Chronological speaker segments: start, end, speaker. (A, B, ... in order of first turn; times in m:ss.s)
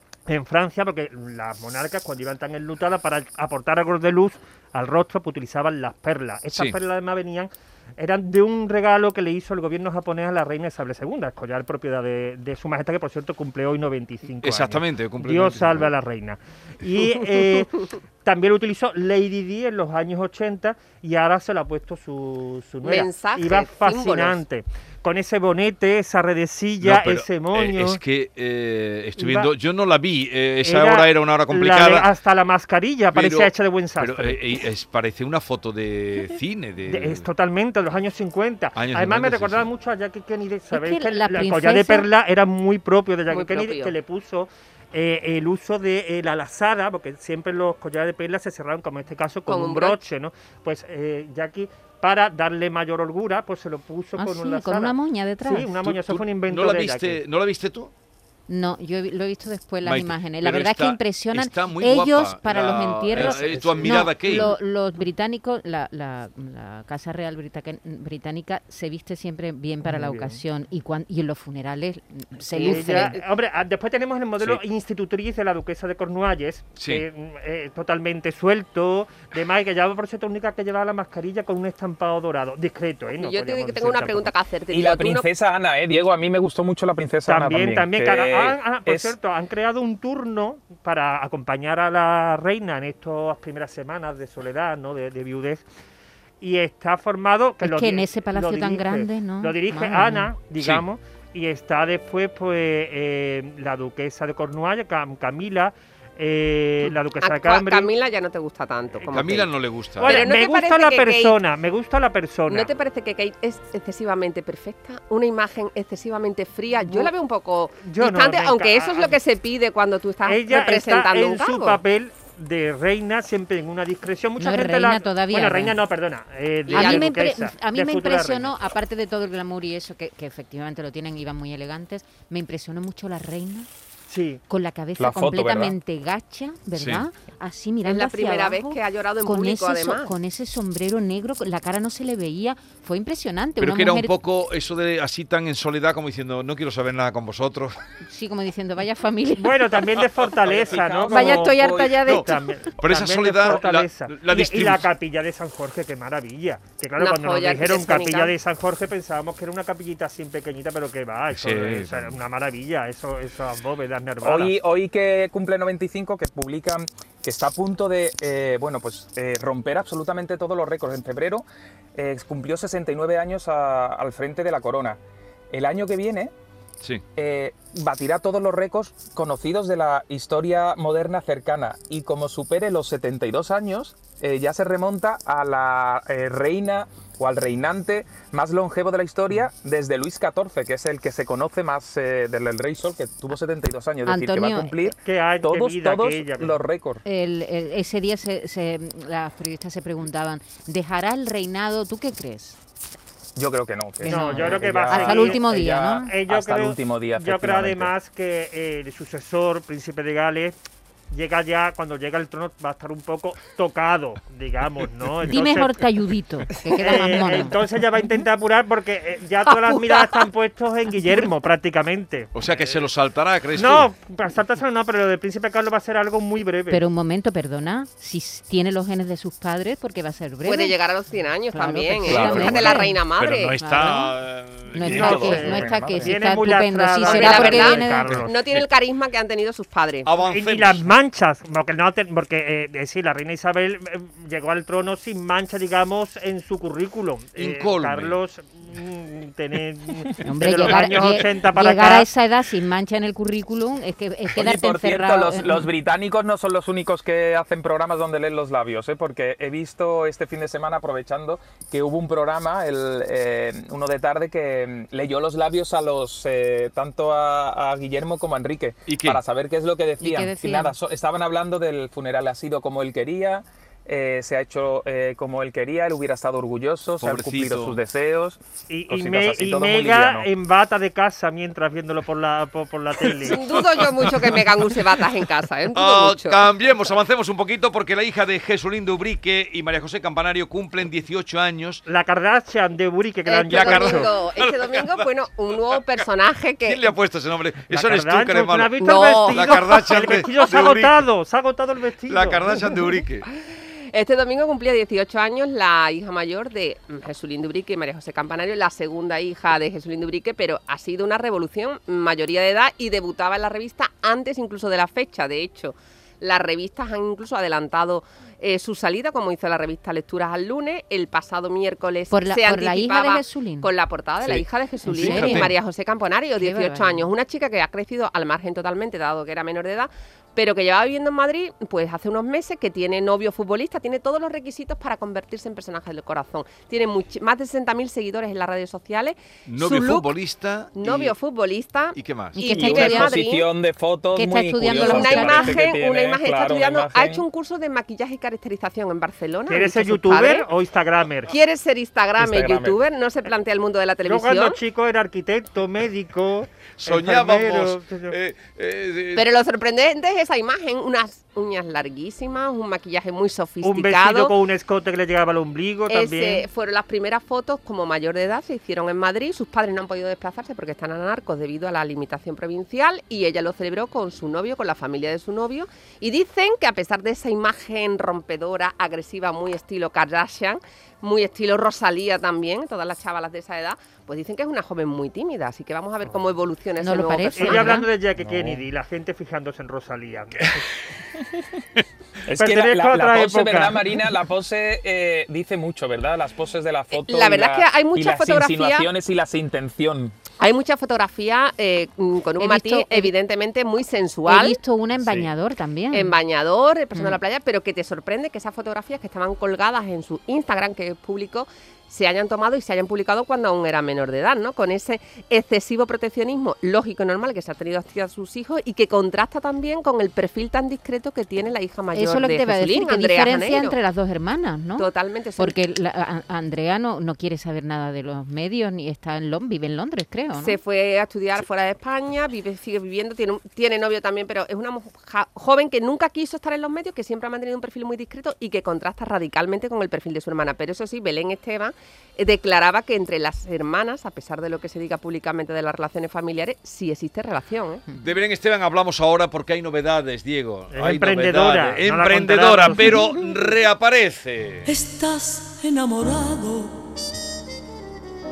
0:00.3-0:17.7 A
0:14.4-0:15.9 B
0:18.2-0:28.0 A
0:22.8-0:24.4 C
0:26.8-0:32.1 B
0:29.2-0:29.5 A
0:30.6-0:34.4 A
0:33.1-0:37.3 B
0:36.9-0:57.2 A
0:38.8-0:39.6 B
0:40.7-0:42.1 D
0:43.3-0:44.0 C
0:49.5-0:50.0 C
0:54.2-0:55.7 D
0:55.8-0:57.9 B
0:58.5-1:13.2 D
0:59.8-1:04.5 B
1:03.2-1:03.7 E
1:03.8-1:04.5 A
1:09.8-1:10.4 A
1:12.5-1:24.3 A
1:12.6-1:13.2 C
1:16.8-1:17.0 B
1:23.1-1:25.3 C
1:24.7-1:29.1 E
1:27.3-1:35.6 A
1:36.4-1:47.9 A
1:37.6-1:40.3 D
1:40.6-1:40.8 B
1:47.2-1:51.4 C
1:49.1-1:50.3 B
1:50.0-1:52.7 A
1:52.5-2:01.8 C
1:56.8-1:57.1 A
1:57.8-1:59.2 A
2:00.2-2:08.5 A
2:04.4-2:05.8 D
2:06.7-2:07.0 C
2:06.7-2:13.7 D
2:14.1-2:14.4 A
2:14.5-2:24.2 D
2:15.0-2:15.8 E
2:16.8-2:17.0 B
2:17.8-2:20.1 C
2:23.6-2:27.8 B
2:28.0-2:29.6 D
2:29.4-2:44.5 A
2:30.6-2:32.2 E
2:31.1-2:32.3 D
2:32.8-2:34.9 B
2:37.0-2:38.3 C
2:41.3-2:42.2 B
2:44.2-2:55.0 E
2:55.5-2:56.3 E
2:57.2-3:17.0 E
3:14.1-3:14.9 D
3:15.0-3:16.6 A
3:17.0-3:22.6 D
3:23.4-3:27.9 E
3:24.0-3:26.1 D
3:24.1-3:25.4 A
3:26.0-3:30.6 A
3:31.1-3:35.8 A
3:35.3-3:37.6 D
3:36.8-3:42.9 A
3:42.3-3:43.9 B
3:43.6-3:46.8 A
3:46.7-3:50.8 D
3:50.4-3:53.6 C
3:51.5-3:53.0 D
3:52.1-3:52.8 E
3:52.4-3:55.4 B
3:53.6-3:54.2 D
3:54.7-3:58.2 D
3:54.8-3:56.2 E
3:54.8-3:58.4 A
3:57.0-4:00.1 C
3:58.1-3:58.6 B
4:00.1-4:00.9 B
4:00.2-4:12.1 A
4:07.4-4:08.2 B
4:10.2-4:15.7 D
4:14.3-4:40.3 E
4:28.9-4:29.2 B
4:30.0-4:30.7 D
4:37.0-4:37.8 B
4:38.7-4:43.4 A
4:43.2-4:46.4 C
4:43.2-4:44.5 B
4:45.7-4:51.8 B
4:51.9-4:54.1 A
4:53.3-4:56.8 C
4:53.5-4:56.0 B
4:56.6-5:01.0 B
4:57.7-5:02.6 A
4:58.8-4:59.7 C
5:02.1-5:03.3 B
5:03.9-5:40.1 C
5:22.1-5:23.7 D
5:24.2-5:25.5 B
5:24.9-5:25.5 D
5:26.4-5:27.1 D
5:39.5-5:41.2 B
5:40.8-5:43.5 C
5:42.0-5:42.4 B
5:42.4-5:43.1 D
5:42.5-5:47.2 E
5:44.2-5:45.6 D
5:44.7-5:50.5 C
5:49.5-5:51.3 A
5:51.3-5:54.6 C
5:52.2-5:52.8 E
5:54.0-5:58.2 A
5:56.8-5:59.3 B
5:59.2-6:04.3 C
6:03.6-6:06.5 A
6:05.9-6:27.8 C
6:26.8-6:27.9 D
6:27.4-6:30.6 A
6:28.2-6:28.6 E
6:32.3-6:40.2 E
6:32.3-6:33.8 A
6:36.9-6:38.9 C
6:40.4-6:44.6 C
6:42.4-6:43.1 D
6:44.3-6:46.2 D
6:45.9-7:03.8 C
6:46.9-6:47.2 D
7:01.9-7:10.6 D
7:04.8-7:05.6 C
7:10.4-7:27.8 C
7:28.0-7:34.7 B
7:30.7-7:33.0 A
7:34.6-7:36.8 F